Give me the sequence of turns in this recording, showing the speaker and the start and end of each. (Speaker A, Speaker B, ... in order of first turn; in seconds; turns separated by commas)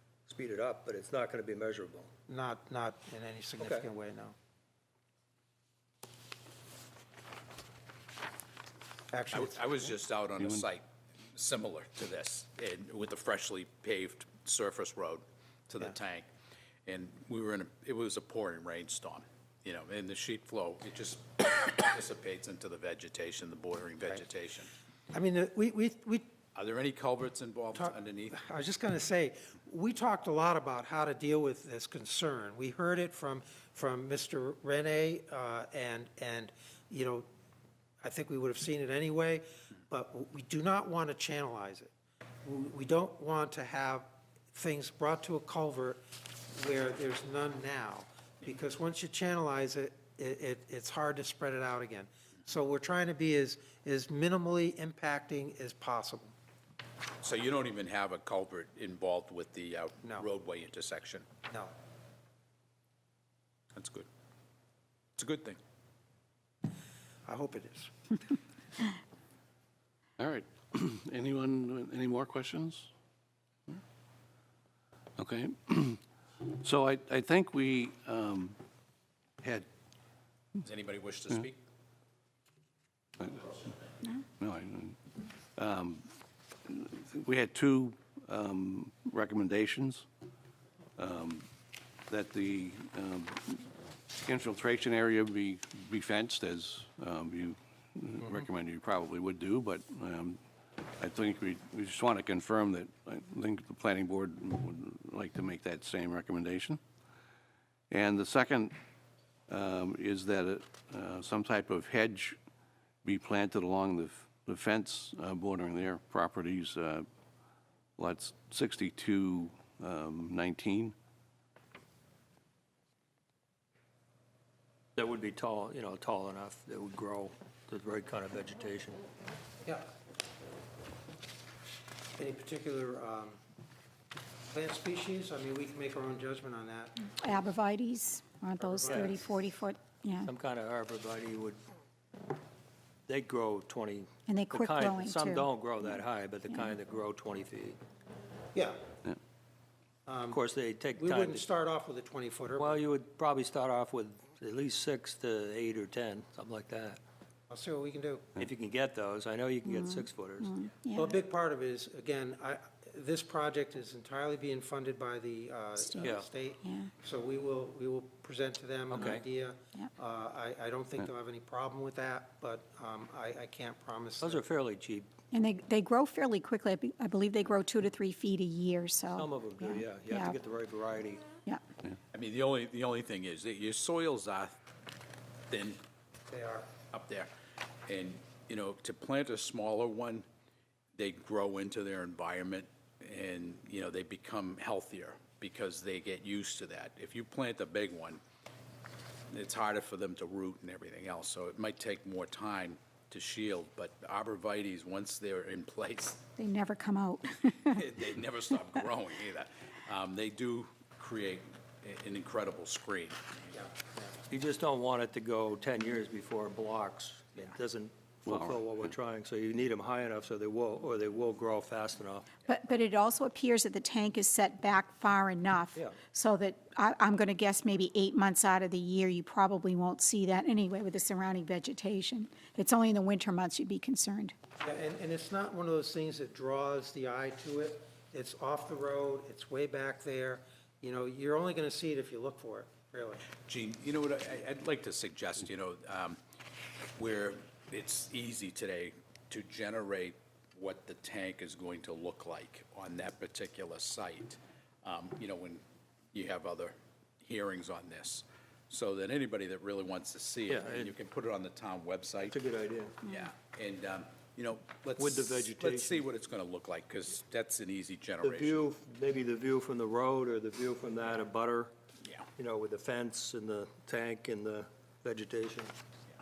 Speaker A: 0.2-2.1, Speaker B: 2.3-4.3, Speaker A: 3.6-3.9, Speaker B: 9.1-9.9, Speaker C: 9.3-16.3, Speaker D: 10.4-10.6, Speaker C: 16.9-24.7, Speaker B: 25.1-26.3, Speaker C: 26.5-28.4, Speaker B: 27.7-37.3, Speaker B: 38.0-41.9, Speaker B: 42.4-56.3, Speaker C: 57.2-61.3, Speaker B: 61.5-61.7, Speaker C: 63.7-64.1, Speaker C: 65.2-65.6, Speaker B: 67.2-68.3, Speaker D: 70.2-72.9, Speaker D: 75.2-76.0, Speaker D: 76.6-78.6, Speaker D: 79.4-79.7, Speaker C: 80.6-81.6, Speaker D: 83.2-83.7, Speaker D: 84.4-85.0, Speaker D: 85.5-86.1, Speaker D: 86.7-90.0, Speaker D: 91.0-91.5, Speaker D: 92.1-93.7, Speaker D: 94.2-100.4, Speaker D: 101.0-106.8, Speaker D: 107.9-108.7, Speaker D: 109.5-112.4, Speaker D: 113.0-117.1, Speaker D: 118.0-120.9, Speaker A: 125.0-129.0, Speaker B: 132.2-133.4, Speaker B: 134.5-137.0, Speaker E: 137.0-140.3, Speaker B: 138.6-139.2, Speaker A: 138.8-139.1, Speaker A: 140.2-141.6, Speaker A: 143.1-147.8, Speaker E: 144.3-145.9, Speaker B: 148.5-148.8, Speaker B: 150.1-150.4, Speaker A: 150.3-151.5, Speaker B: 150.9-152.8, Speaker A: 152.6-157.0, Speaker B: 157.5-158.3, Speaker A: 158.4-160.5, Speaker E: 159.7-161.2, Speaker B: 160.9-174.4, Speaker E: 165.8-166.9, Speaker A: 166.0-166.2, Speaker A: 168.9-169.2, Speaker A: 174.2-175.1, Speaker E: 175.3-180.3, Speaker A: 179.1-181.2, Speaker C: 182.1-184.6, Speaker C: 185.5-185.8, Speaker B: 186.3-186.7, Speaker C: 186.9-187.3, Speaker C: 187.9-190.2, Speaker C: 190.9-198.2, Speaker C: 199.3-206.2, Speaker E: 206.4-207.9, Speaker C: 207.7-213.6, Speaker B: 213.5-214.1, Speaker A: 214.3-222.3, Speaker D: 218.2-218.7, Speaker E: 222.4-234.3, Speaker B: 234.6-243.3, Speaker C: 243.4-246.2, Speaker C: 246.9-262.4, Speaker A: 260.4-260.9, Speaker A: 262.2-263.0, Speaker C: 263.1-268.6, Speaker A: 265.0-266.1, Speaker A: 268.2-271.7, Speaker A: 272.4-275.7